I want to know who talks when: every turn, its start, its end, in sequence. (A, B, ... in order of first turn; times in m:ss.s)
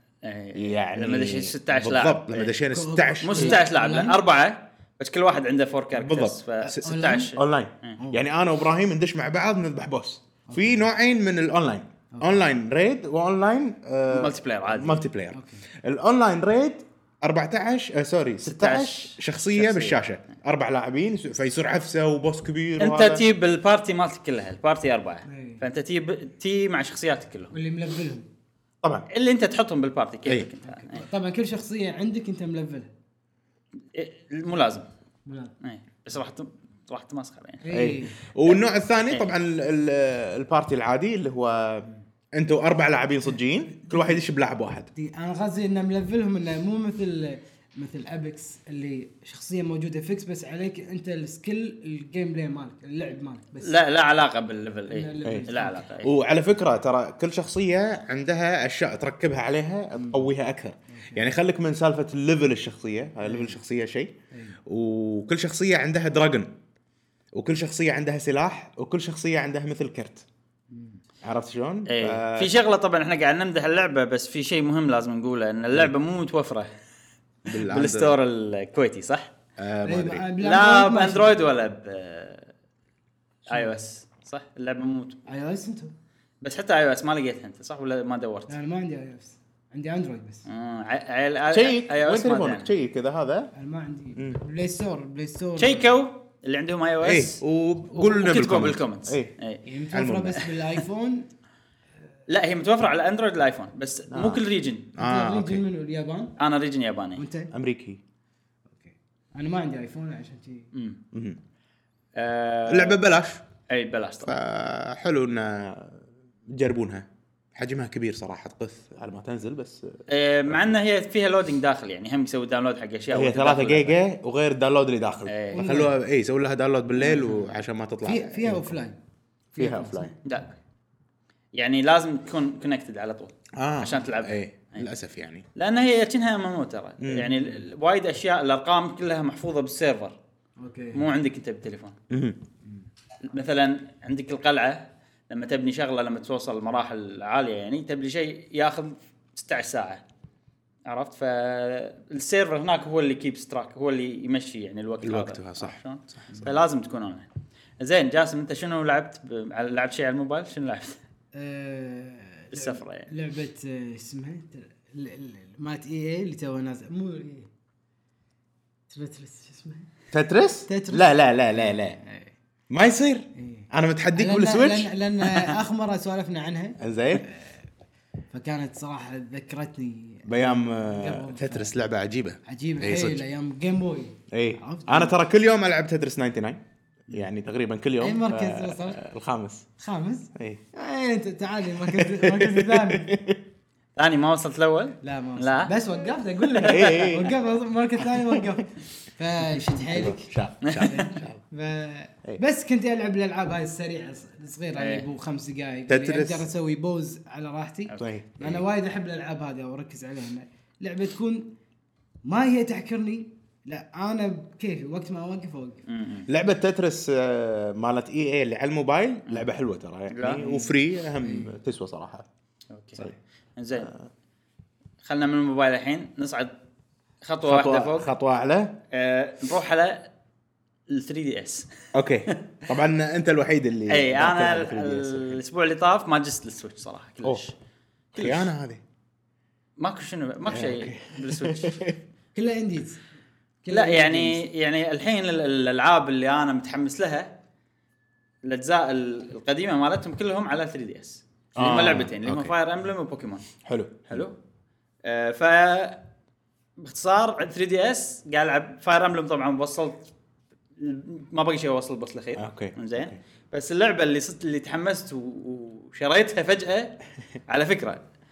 0:00.2-0:02.6 A
0:00.5-0:03.6 B
0:02.7-0:04.2 C
0:03.2-0:08.0 A
0:06.0-0:23.2 B
0:06.8-0:07.3 C
0:10.5-0:10.8 C
0:12.1-0:12.4 C
0:14.1-0:15.0 A
0:15.3-0:15.6 C
0:18.4-0:20.0 A
0:22.8-0:27.6 A
0:25.2-0:25.6 C
0:27.5-0:28.2 C
0:29.1-0:31.0 A
0:30.6-0:32.9 C
0:33.9-0:34.8 A
0:35.2-0:35.5 C
0:35.6-0:37.6 A
0:37.6-0:38.2 C
0:37.7-0:44.9 B
0:44.9-0:53.8 C
0:53.6-0:56.1 A
0:54.9-0:55.9 C
0:56.0-1:04.1 B
1:00.0-1:00.3 C
1:00.9-1:01.2 C
1:03.2-1:03.6 C
1:04.3-1:04.6 C
1:04.6-1:06.5 B
1:07.3-1:10.2 B
1:10.7-1:11.0 C
1:11.2-1:12.5 B
1:11.9-1:16.7 A
1:17.5-1:18.2 B
1:17.5-1:19.3 A
1:19.6-1:20.2 B
1:19.8-1:21.4 C
1:20.4-1:22.5 A
1:23.5-1:25.2 A
1:25.3-1:25.9 C
1:26.4-1:28.6 A
1:28.5-1:30.4 C
1:30.5-1:32.7 A
1:31.5-1:33.5 B
1:33.5-1:35.9 C
1:35.6-1:37.4 A
1:37.0-1:39.3 B
1:37.9-1:39.6 A
1:39.6-1:41.3 C
1:39.9-1:40.4 B
1:42.3-1:44.9 A
1:44.1-1:44.4 B
1:45.0-1:45.6 B
1:45.0-1:46.3 C
1:46.4-1:47.2 A
1:47.2-1:47.5 C
1:47.5-1:48.0 B
1:48.7-1:50.7 C
1:50.7-1:51.0 A
1:51.1-1:51.4 B
1:52.2-1:53.0 A
1:52.7-1:53.4 B
1:53.7-1:54.4 A
1:54.2-2:00.0 B
2:00.1-2:04.0 A
2:03.1-2:08.8 B
2:05.2-2:05.6 A
2:05.5-2:06.0 C
2:07.0-2:07.5 C
2:08.0-2:09.0 C
2:09.5-2:10.2 C
2:09.6-2:10.1 B
2:10.2-2:10.5 A
2:11.5-2:14.8 A
2:13.5-2:15.4 B
2:15.5-2:20.2 A
2:17.0-2:17.4 B
2:20.6-2:21.1 C
2:20.9-2:22.0 A
2:22.1-2:22.4 B
2:23.2-2:30.0 A
2:30.8-2:37.3 A
2:35.0-2:36.5 B
2:37.8-2:41.0 A
2:41.3-2:47.5 C
2:42.5-2:43.1 A
2:48.9-2:49.9 C
2:50.1-2:52.0 B
2:50.7-2:52.3 C
2:52.7-2:54.9 B
2:53.4-2:57.6 C
2:56.8-2:57.3 B
2:58.3-3:01.7 C
3:00.2-3:03.2 B
3:02.5-3:05.1 C
3:04.3-3:09.6 B
3:08.0-3:09.0 C
3:09.8-3:13.2 C
3:10.4-3:10.6 B
3:11.8-3:13.4 B
3:14.0-3:15.7 A
3:15.0-3:31.5 C
3:16.5-3:17.0 A
3:16.6-3:17.4 B
3:18.2-3:18.6 B
3:19.9-3:21.4 B
3:20.6-3:21.1 A
3:24.7-3:25.0 A
3:25.9-3:26.5 B
3:28.0-3:28.6 B
3:32.2-3:35.8 C
3:35.9-3:36.3 A
3:36.3-3:42.3 B
3:40.1-3:40.7 A
3:41.2-3:41.5 C
3:42.7-3:43.9 A
3:45.0-3:46.5 A
3:47.2-3:48.1 A
3:47.4-3:48.8 B
3:48.9-3:50.1 A
3:50.9-3:51.7 A
3:51.9-3:55.4 B
3:53.9-3:57.5 A
3:58.1-3:58.5 A
3:58.1-3:58.8 B
3:59.8-4:01.8 A
4:00.5-4:02.0 B
4:02.3-4:03.0 C
4:03.6-4:04.4 C
4:03.7-4:07.3 A
4:08.4-4:13.4 A
4:11.5-4:12.5 B
4:13.6-4:14.2 B
4:14.1-4:14.3 A
4:15.0-4:16.0 A
4:16.8-4:20.1 A
4:20.8-4:26.9 A
4:22.4-4:23.2 B
4:27.5-4:28.0 A